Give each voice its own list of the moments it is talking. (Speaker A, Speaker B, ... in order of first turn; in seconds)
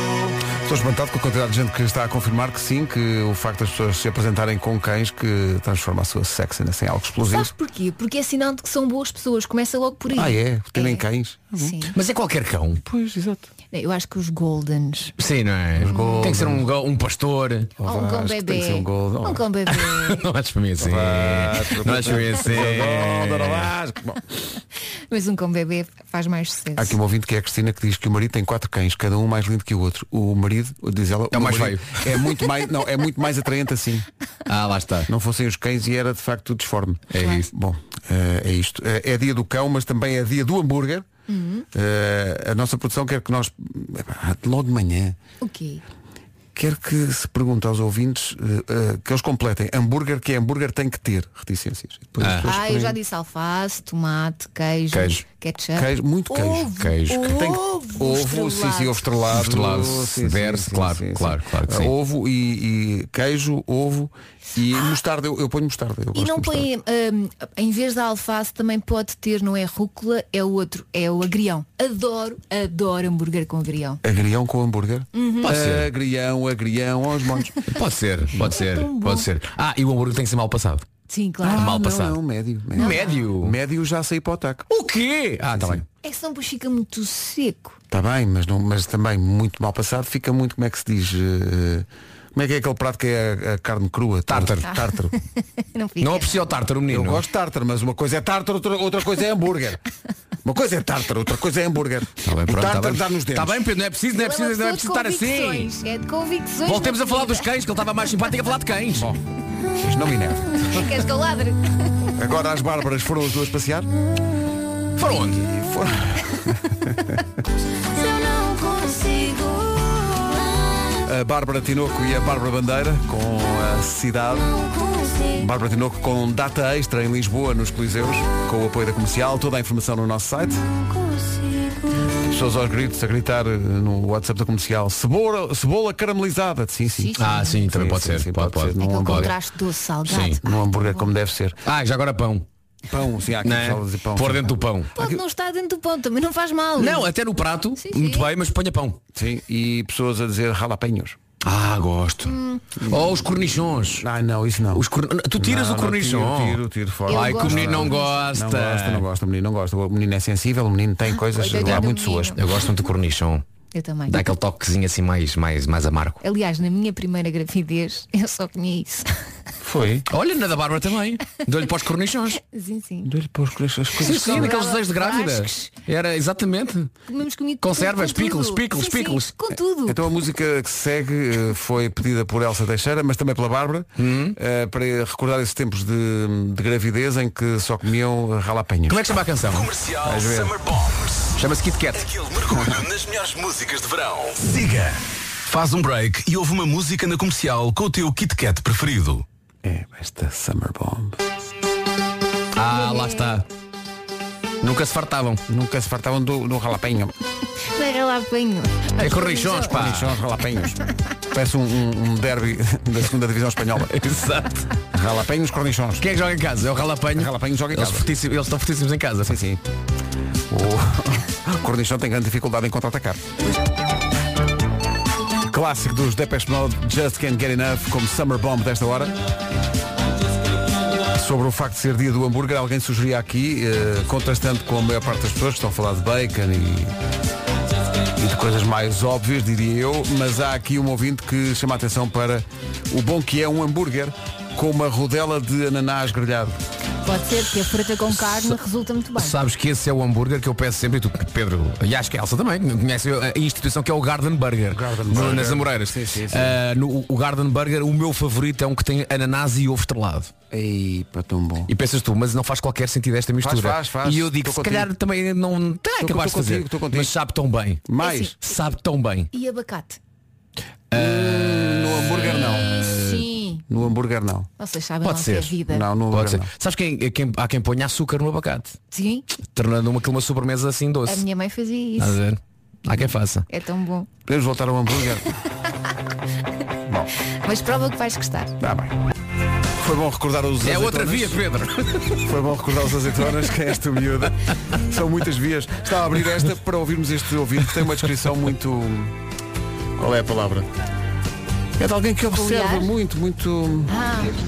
Speaker A: 0.5-7.5, 10.1-11.9, 12.8-13.5, 15.8-16.6, 17.8-19.4, 20.8-24.4, 26.8-34.1, 35.1-41.1, 41.7-45.2, 46.5-53.0, 55.8-66.7, 74.0-77.6, 81.4-84.7, 85.5-85.8, 87.9-95.1, 96.9-99.8, 100.4-103.6, 108.9-109.2, 109.7-110.9, 112.2-113.9, 115.3-117.2, 121.0-124.6, 125.2-130.7, 132.2-139.3, 140.4-141.6, 142.9-145.2, 149.1-151.2, 152.8-153.2, 154.0-162.4, 169.6-170.1, 173.0-174.6, 179.9-189.2, 190.0-190.5, 199.6-201.2, 205.5-207.1, 209.7-210.8, 211.3-213.9, 214.9-216.1, 217.1-218.1, 219.2-219.6, 220.5-223.2, 225.4-229.1, 231.1-236.9, 238.2-246.6, 254.7-256.6, 260.5-261.7, 263.4-264.9, 266.0-267.1, 267.9-268.3, 270.9-272.9, 273.7-274.5, 275.7-276.5, 284.3-285.3, 288.6-289.0, 289.8-291.4, 292.2-299.1, 300.0-300.7, 301.8-303.9
Speaker B: 7.3-11.0, 11.6-11.9, 13.7-15.2, 15.8-16.4, 17.8-20.2, 25.1-27.0, 41.3-41.6, 45.4-45.8, 52.4-59.1, 66.1-74.0, 75.1-75.5, 78.5-79.3, 81.1-81.7, 82.8-83.3, 86.0-87.8, 94.7-96.5, 104.1-107.5, 110.5-111.6, 118.2-119.6, 136.9-137.7, 138.8-141.1, 144.9-147.1, 147.8-148.3, 152.2-152.6, 157.1-158.3, 161.2-162.4, 163.7-164.2, 166.2-169.1, 172.4-173.1, 174.1-175.7, 177.1-180.0, 202.7-203.4, 207.7-209.8, 247.0-249.4, 268.0-268.4, 269.3-270.0, 272.2-273.6, 274.6-275.9, 278.9-279.2, 281.1-282.2, 283.5-284.1, 287.4-288.5, 302.3-302.9, 303.9-304.3
Speaker C: 11.9-12.8, 15.2-17.7, 19.7-23.7, 31.3-32.0, 34.5-35.1, 37.1-37.5, 52.2-52.5, 54.9-55.2, 56.8-57.3, 59.3-61.9, 75.4-75.9, 77.7-80.9, 81.5-82.2, 82.7-83.5, 84.7-85.8, 94.3-94.7, 96.0-97.2, 102.2-105.7, 106.6-109.1, 115.0-115.5, 137.2-139.3, 140.1-140.4, 141.6-142.5, 143.4-144.9, 146.8-149.0, 151.4-152.3, 152.8-154.0, 154.7-159.0, 161.6-163.4, 164.1-166.2, 170.1-172.4, 174.0-176.9, 177.6-179.3, 184.0-184.4, 188.9-189.7, 191.4-192.0, 202.5-203.4, 204.6-205.4, 209.0-210.2, 213.8-214.7, 216.0-219.4, 248.1-248.6, 249.2-260.3, 261.7-267.8, 268.4-269.3, 270.9-273.2, 275.0-275.6, 276.1-278.8, 279.4-281.2, 282.0-283.4, 290.6-292.3
Speaker D: 189.5-191.4, 191.9-199.2